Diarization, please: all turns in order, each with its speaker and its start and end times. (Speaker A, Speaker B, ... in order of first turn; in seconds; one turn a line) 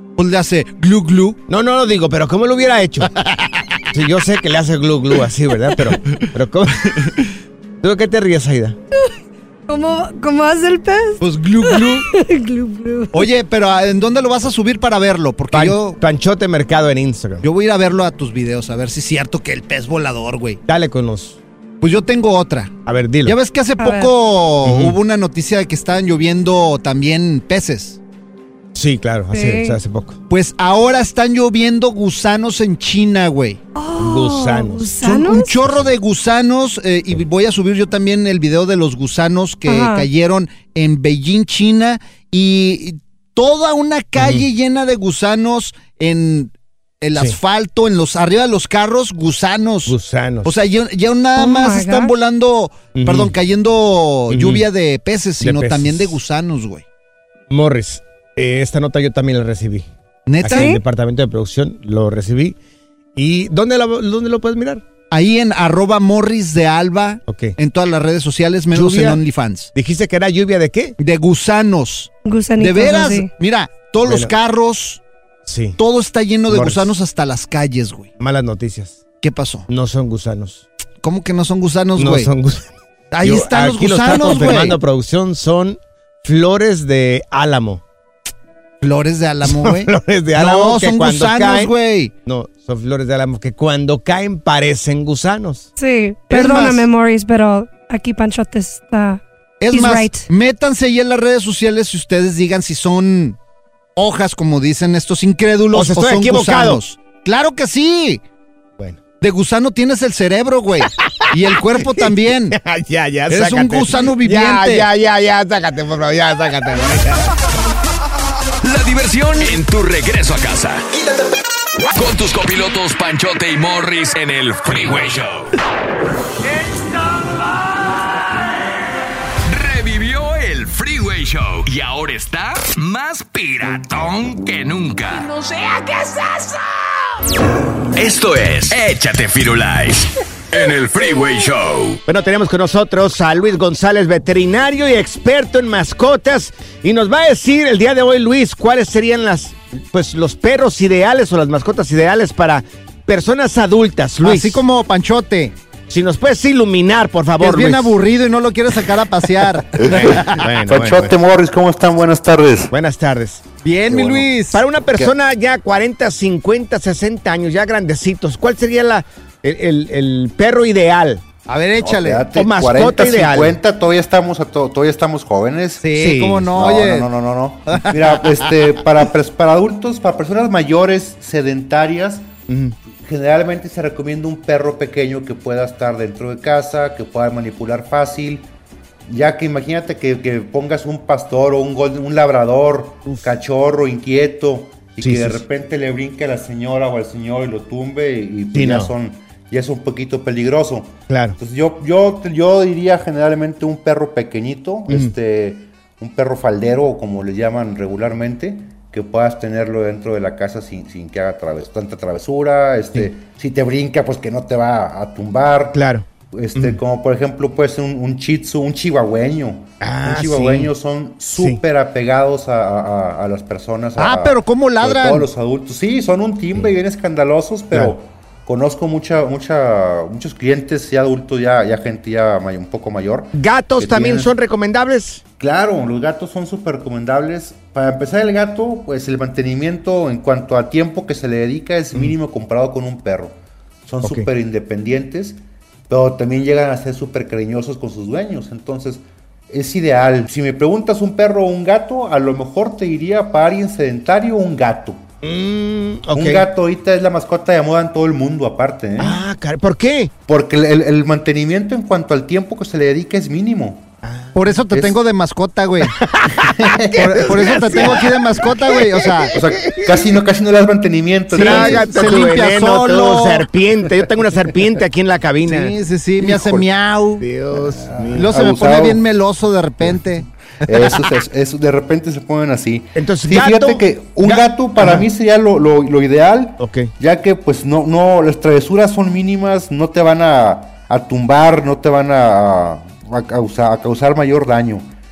Speaker A: 0.2-1.4
Speaker B: 1.5-3.1
Speaker A: 3.0-3.9
Speaker B: 3.9-7.1
Speaker A: 6.0-6.3
Speaker B: 7.8-8.8
Speaker C: 9.7-13.3
Speaker A: 11.2-12.1
Speaker A: 13.1-16.0
Speaker B: 15.5-17.4
Speaker A: 17.4-20.6
Speaker B: 20.7-21.4
Speaker A: 21.8-22.7
Speaker B: 22.9-23.4
Speaker A: 23.2-28.0
Speaker C: 23.8-24.1
Speaker B: 24.6-25.0
Speaker B: 28.8-30.2
Speaker C: 29.3-29.8
Speaker A: 30.3-33.6
Speaker C: 33.8-35.5
Speaker B: 34.0-35.0
Speaker A: 35.0-56.8
Speaker C: 39.7-40.1
Speaker B: 44.2-44.5
Speaker B: 49.9-50.5
Speaker C: 51.4-52.1
Speaker B: 53.0-53.3
Speaker B: 54.3-54.7
Speaker B: 55.4-56.2
Speaker B: 57.5-59.9
Speaker A: 60.3-60.8
Speaker B: 60.4-62.6
Speaker C: 60.5-60.8
Speaker B: 63.2-64.8
Speaker A: 65.1-69.7
Speaker B: 67.3-67.6
Speaker B: 68.7-69.2
Speaker B: 69.8-71.0
Speaker A: 71.0-75.0
Speaker C: 72.2-73.3
Speaker B: 74.0-74.3
Speaker B: 75.5-75.8
Speaker A: 75.8-78.1
Speaker B: 76.5-76.9
Speaker B: 78.2-79.0
Speaker A: 79.2-79.7
Speaker B: 79.7-80.6
Speaker A: 81.0-82.3
Speaker B: 82.0-87.8
Speaker A: 83.1-84.8
Speaker A: 88.8-92.1
Speaker B: 89.5-91.7
Speaker B: 92.3-95.7
Speaker C: 95.8-100.3
Speaker A: 96.3-96.8
Speaker A: 99.6-103.4
Speaker A: 104.0-108.2
Speaker B: 105.7-106.8
Speaker A: 109.2-112.6
Speaker B: 111.0-117.3
Speaker A: 113.3-114.9
Speaker D: 118.6-121.2
Speaker D: 121.9-125.6
Speaker D: 126.7-127.9
Speaker D: 129.5-135.4
Speaker D: 137.9-142.0
Speaker B: 142.1-154.6
Speaker A: 154.2-155.5
Speaker B: 155.9-158.0
Speaker A: 157.4-160.2
Speaker E: 159.8-162.7
Speaker B: 159.9-161.1
Speaker B: 162.7-163.4
Speaker A: 163.6-164.6
Speaker E: 163.9-164.3
Speaker B: 164.5-171.2
Speaker A: 171.5-172.3
Speaker E: 171.8-175.9
Speaker B: 172.3-173.6
Speaker A: 175.8-177.1
Speaker B: 175.9-176.5
Speaker E: 176.5-182.3
Speaker A: 177.7-178.3
Speaker B: 182.5-182.7
Speaker E: 183.0-188.5
Speaker E: 189.1-215.8
Speaker B: 195.0-195.4
Speaker B: 198.5-198.9
Speaker B: 201.1-201.4
Speaker B: 215.7-216.8
Speaker E: 216.3-234.3
Speaker B: 219.8-220.7
Speaker B: 221.3-221.6
Speaker A: 224.0-225.3
Speaker B: 233.3-235.2
Speaker E: 235.4-255.0
Speaker B: 255.2-256.5
Speaker E: 256.1-259.2
Speaker B: 259.0-260.1
Speaker E: 260.3-263.9
Speaker B: 264.0-264.3
Speaker A: 264.3-266.0
Speaker E: 264.7-265.0
Speaker B: 266.0-270.2
Speaker E: 266.4-268.1
Speaker A: 267.0-269.4
Speaker E: 269.3-272.3
Speaker A: 271.3-273.4
Speaker B: 271.3-275.7
Speaker A: 275.4-277.3
Speaker E: 276.2-276.7
Speaker B: 277.2-278.4
Speaker E: 277.6-279.1
Speaker A: 278.1-280.2
Speaker E: 280.6-294.9
Speaker B: 282.9-285.1
Speaker B: 286.6-286.9